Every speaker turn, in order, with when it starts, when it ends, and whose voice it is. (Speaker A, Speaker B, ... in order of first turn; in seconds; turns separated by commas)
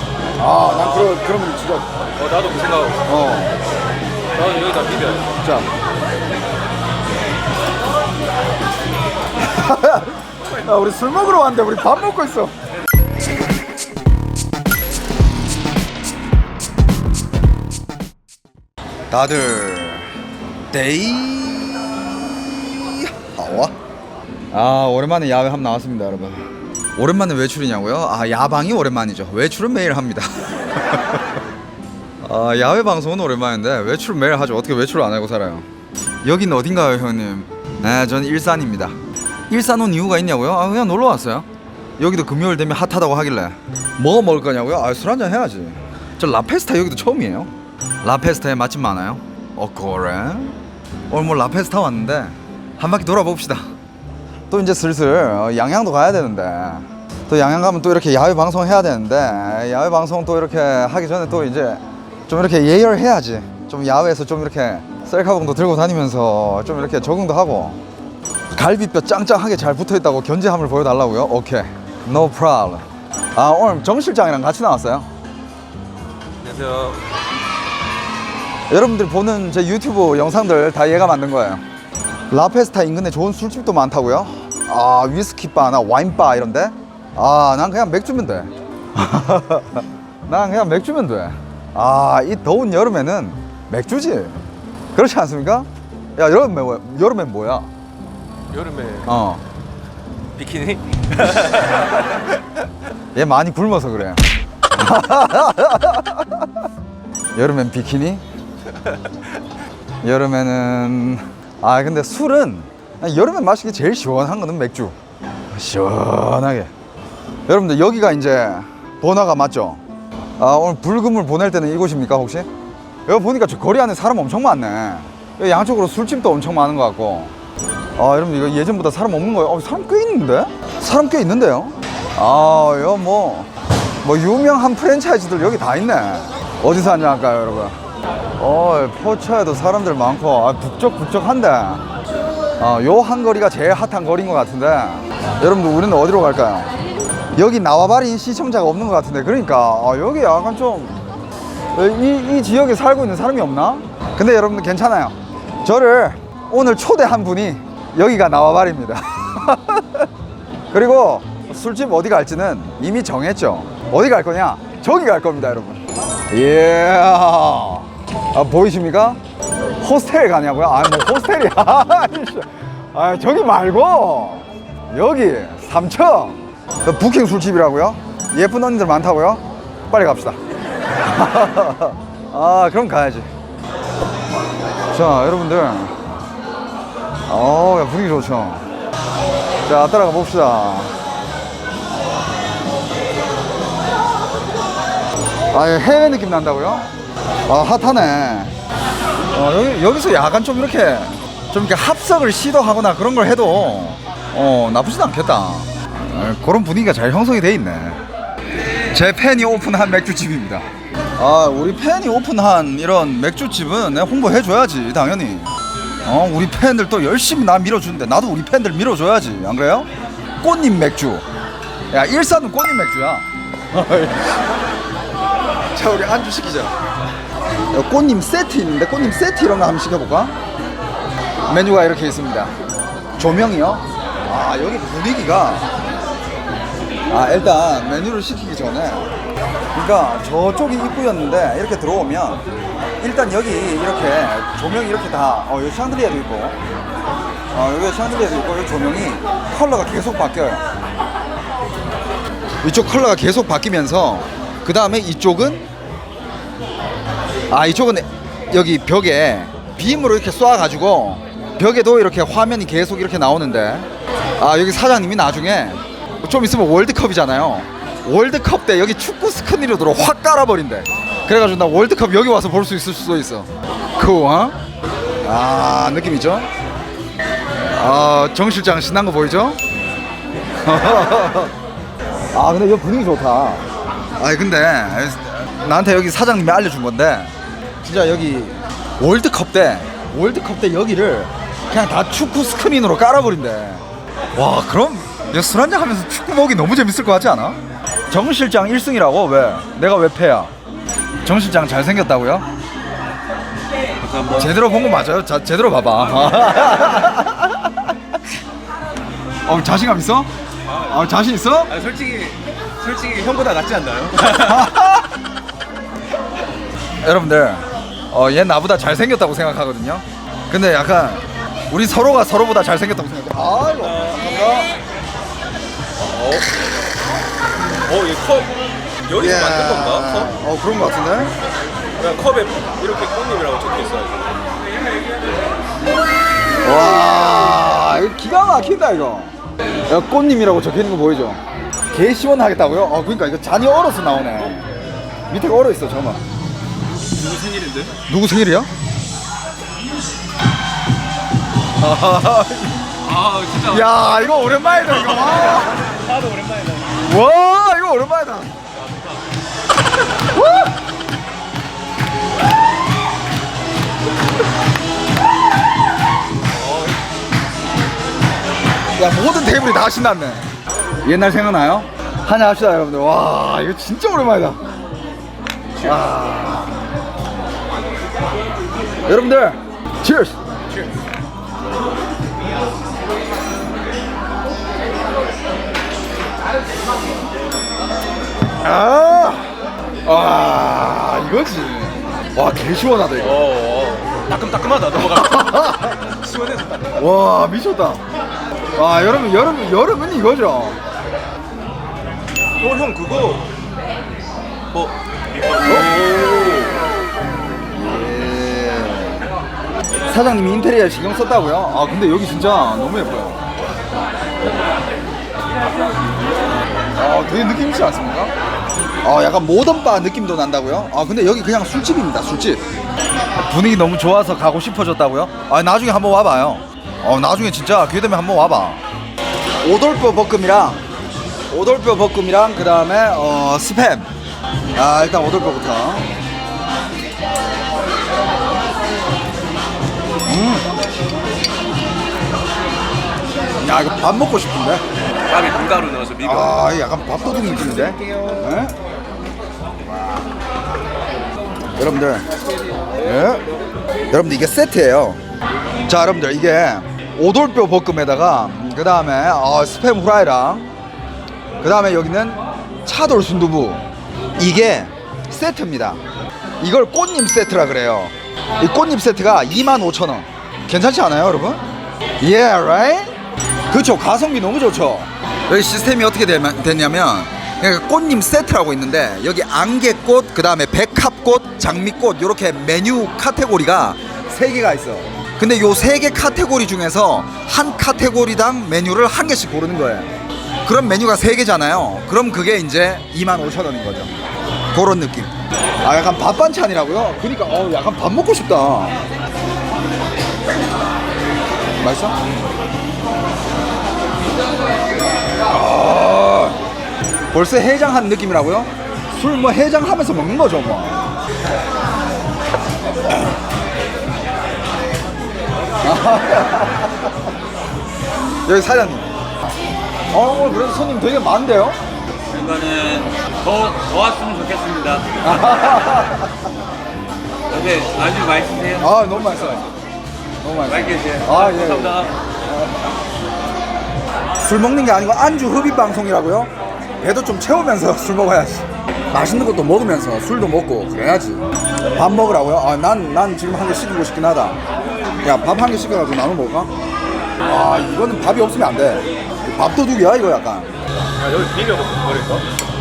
Speaker A: 0.4-1.9, Speaker B: 0.7-1.1, Speaker B: 2.2-3.1, Speaker A: 3.1-3.6, Speaker B: 4.3-5.3, Speaker A: 5.4-5.7, Speaker A: 9.4-12.5, Speaker A: 19.1-20.1, Speaker A: 20.7-21.8, Speaker A: 22.7-23.7, Speaker A: 24.5-31.4, Speaker A: 32.2-35.7, Speaker A: 36.2-39.0, Speaker A: 39.5-41.5, Speaker A: 42.0-47.5, Speaker A: 48.0-50.6, Speaker A: 51.1-53.7, Speaker A: 54.5-67.8, Speaker A: 68.5-75.1, Speaker B: 76.4-77.0, Speaker A: 78.7-81.6, Speaker A: 82.3-94.4, Speaker A: 94.9-97.7, Speaker B: 98.5-99.1, Speaker A: 99.0-99.4, Speaker B: 100.4-102.2, Speaker A: 103.1-106.5, Speaker A: 107.3-108.2, Speaker A: 110.0-115.0, Speaker A: 115.5-116.7, Speaker A: 117.5-119.8, Speaker A: 120.4-122.5, Speaker A: 123.1-127.3, Speaker A: 128.0-133.5, Speaker A: 134.0-137.8, Speaker A: 138.4-141.8, Speaker A: 142.6-146.7, Speaker A: 147.3-151.0, Speaker A: 151.7-160.1, Speaker A: 160.7-169.2, Speaker A: 169.8-180.4, Speaker A: 181.1-183.3, Speaker A: 184.9-186.1, Speaker A: 187.3-188.7, Speaker A: 189.7-190.9, Speaker A: 195.5-196.9, Speaker A: 197.5-198.5, Speaker A: 199.3-208.0, Speaker A: 208.9-210.7, Speaker A: 211.2-215.5, Speaker A: 216.1-219.9, Speaker A: 220.4-221.2, Speaker A: 221.9-224.4, Speaker A: 225.7-226.8, Speaker A: 227.7-230.3, Speaker A: 231.5-232.5, Speaker A: 233.2-235.7, Speaker A: 237.1-239.1, Speaker A: 239.7-242.4, Speaker A: 243.0-246.6, Speaker A: 247.5-250.6, Speaker A: 252.6-255.7, Speaker A: 257.5-263.9, Speaker A: 264.4-274.6, Speaker A: 275.2-276.5, Speaker A: 277.6-279.6, Speaker A: 280.6-281.5, Speaker A: 282.3-283.6, Speaker A: 284.2-293.8, Speaker A: 294.4-300.5, Speaker A: 301.2-302.5, Speaker A: 304.3-307.9, Speaker A: 309.4-310.3, Speaker B: 310.7-311.0, Speaker A: 310.9-311.7, Speaker B: 311.7-314.7, Speaker A: 314.3-315.1, Speaker A: 317.0-324.8, Speaker B: 323.8-324.2, Speaker B: 326.1-326.6, Speaker B: 327.9-328.5, Speaker B: 329.1-330.3, Speaker A: 329.1-331.3, Speaker B: 332.0-334.3, Speaker A: 336.6-339.3, Speaker A: 339.9-341.4, Speaker A: 341.9-344.7, Speaker A: 345.3-346.2, Speaker B: 347.2-347.9, Speaker A: 348.1-348.7, Speaker A: 351.8-352.9, Speaker B: 353.0-356.9, Speaker A: 353.6-355.8, Speaker A: 356.9-358.5, Speaker A: 360.3-360.7, Speaker A: 369.0-370.5, Speaker A: 371.0-374.6, Speaker B: 375.8-376.1, Speaker A: 375.8-376.8, Speaker A: 379.1-380.4, Speaker A: 388.6-393.5, Speaker B: 393.2-397.0, Speaker A: 395.1-396.0, Speaker A: 396.9-398.0, Speaker A: 398.8-400.8, Speaker B: 402.6-403.5, Speaker B: 404.7-406.7, Speaker A: 405.6-406.5, Speaker A: 407.7-409.3, Speaker A: 410.1-413.4, Speaker A: 417.0-418.3, Speaker A: 419.0-422.6, Speaker A: 423.5-428.8, Speaker A: 429.6-430.8, Speaker A: 431.5-434.1, Speaker A: 434.8-436.1, Speaker A: 440.3-440.6, Speaker A: 443.6-444.8, Speaker B: 445.3-446.6, Speaker A: 446.2-448.7, Speaker A: 451.8-452.3, Speaker A: 453.0-453.4, Speaker A: 454.1-455.2, Speaker A: 455.9-460.7, Speaker A: 461.6-463.9, Speaker A: 464.4-466.0, Speaker A: 466.6-471.6, Speaker A: 472.2-473.1, Speaker A: 473.7-490.1, Speaker A: 490.6-494.1, Speaker A: 494.7-495.3, Speaker A: 495.8-499.0, Speaker A: 501.8-502.2, Speaker A: 505.5-506.6, Speaker A: 507.3-511.1, Speaker A: 515.8-517.1, Speaker A: 518.5-519.1, Speaker A: 520.1-521.8, Speaker C: 522.3-525.5, Speaker A: 525.2-526.4, Speaker C: 527.5-529.1, Speaker A: 528.8-529.7, Speaker A: 530.4-532.7, Speaker C: 530.7-531.4, Speaker B: 530.9-532.1, Speaker A: 534.4-544.6, Speaker A: 545.2-546.7, Speaker A: 547.4-550.7, Speaker B: 551.2-552.5